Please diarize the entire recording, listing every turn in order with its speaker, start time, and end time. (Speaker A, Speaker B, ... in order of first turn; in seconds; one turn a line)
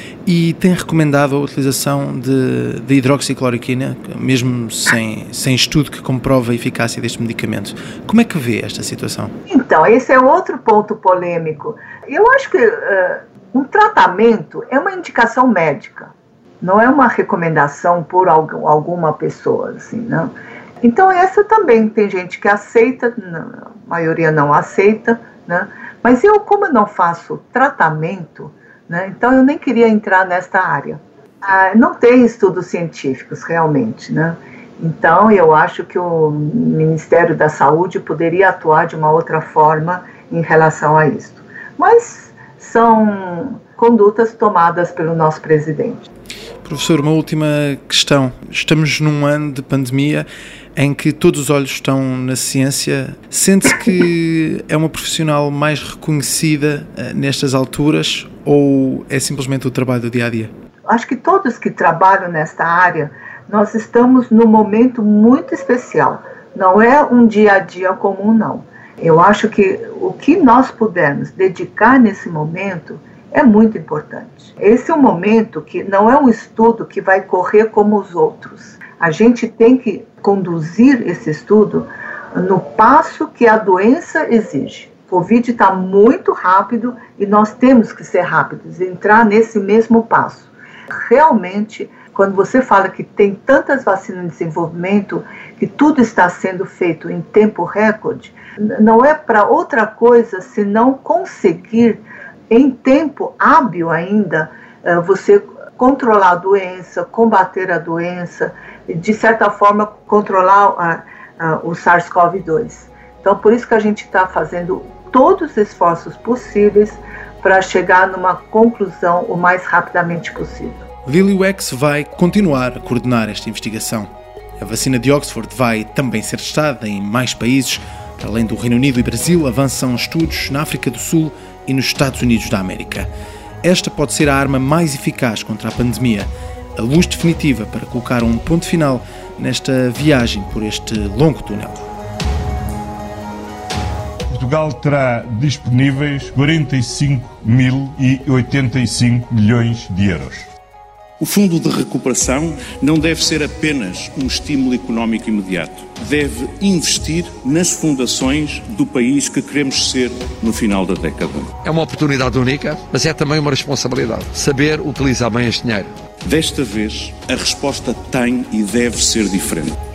Speaker A: 0.2-9.3
Speaker B: 9.5-46.1
Speaker A: 46.6-60.5
Speaker B: 60.9-120.9
Speaker A: 121.1-133.1
Speaker A: 133.6-141.9
Speaker C: 144.3-150.5
Speaker D: 151.2-161.5
Speaker E: 161.6-165.9
Speaker D: 166.2-169.8